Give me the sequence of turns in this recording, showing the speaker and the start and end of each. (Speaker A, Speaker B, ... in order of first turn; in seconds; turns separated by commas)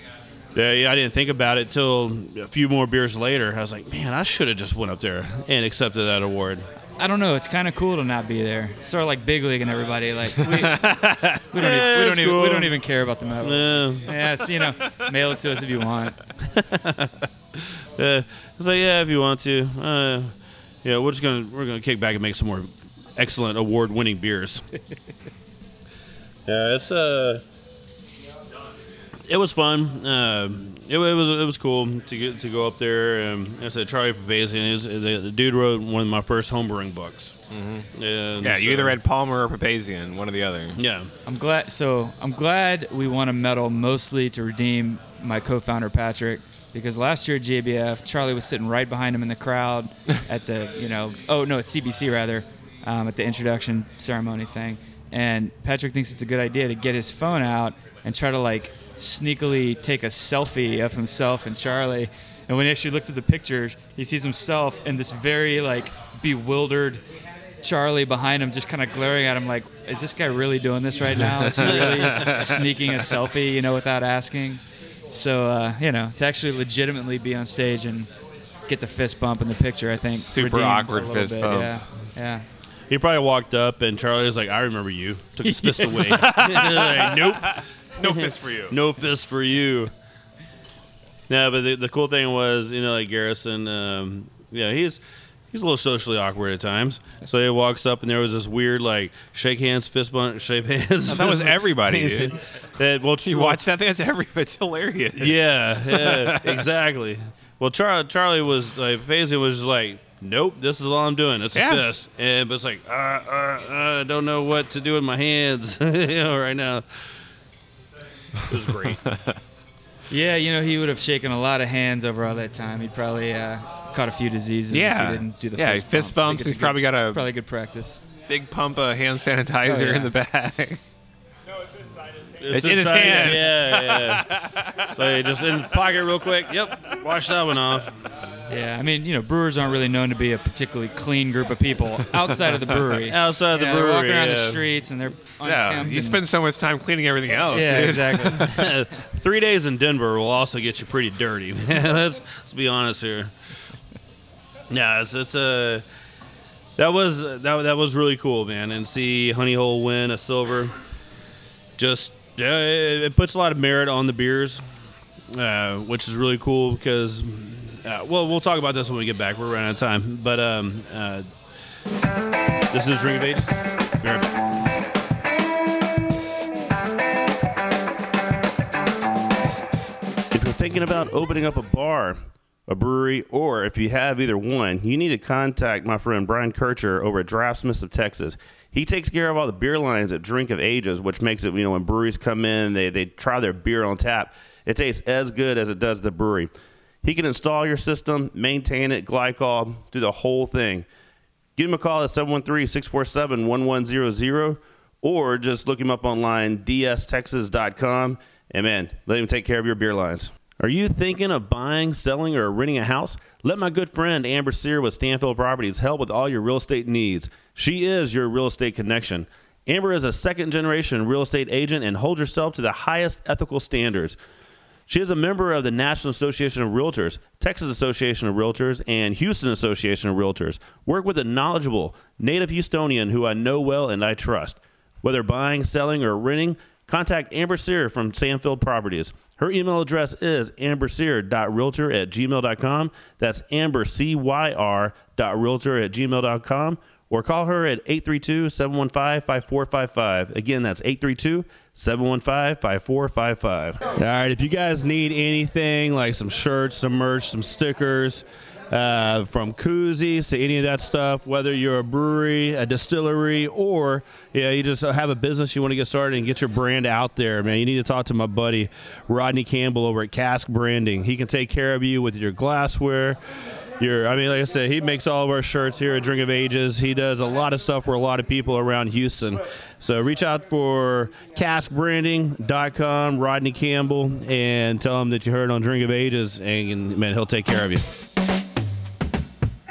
Speaker A: 0.5-6.7, Speaker B: 7.0-10.9, Speaker A: 10.6-12.8, Speaker B: 11.5-16.1, Speaker A: 13.4-14.1, Speaker A: 16.5-24.7, Speaker A: 26.5-27.4, Speaker A: 29.3-37.3, Speaker C: 37.5-37.9, Speaker A: 38.0-39.0, Speaker C: 38.4-40.8, Speaker A: 40.8-41.1, Speaker B: 41.2-67.0, Speaker B: 67.6-78.1, Speaker C: 71.2-72.8, Speaker A: 71.8-72.3, Speaker B: 78.7-82.4, Speaker C: 80.0-81.8, Speaker A: 82.9-89.9, Speaker B: 85.4-86.4, Speaker C: 86.0-88.8, Speaker A: 91.3-95.0, Speaker A: 95.5-103.6, Speaker C: 101.1-102.3, Speaker C: 103.2-106.7, Speaker A: 105.2-117.1, Speaker C: 111.5-111.8, Speaker A: 118.5-119.0, Speaker C: 118.8-119.4, Speaker B: 120.1-128.0, Speaker C: 124.7-127.3, Speaker C: 128.3-130.8, Speaker B: 129.6-130.1, Speaker A: 132.4-138.1, Speaker C: 132.5-134.8, Speaker B: 138.5-146.2, Speaker A: 143.1-144.7, Speaker C: 145.4-148.7, Speaker B: 147.5-148.4, Speaker A: 148.4-153.3, Speaker A: 154.7-155.8, Speaker A: 156.8-160.7, Speaker A: 161.8-164.6, Speaker A: 165.3-171.3, Speaker A: 172.7-174.4, Speaker A: 180.3-196.5, Speaker A: 197.0-200.8, Speaker A: 201.6-224.2, Speaker A: 224.9-273.2, Speaker A: 273.8-287.8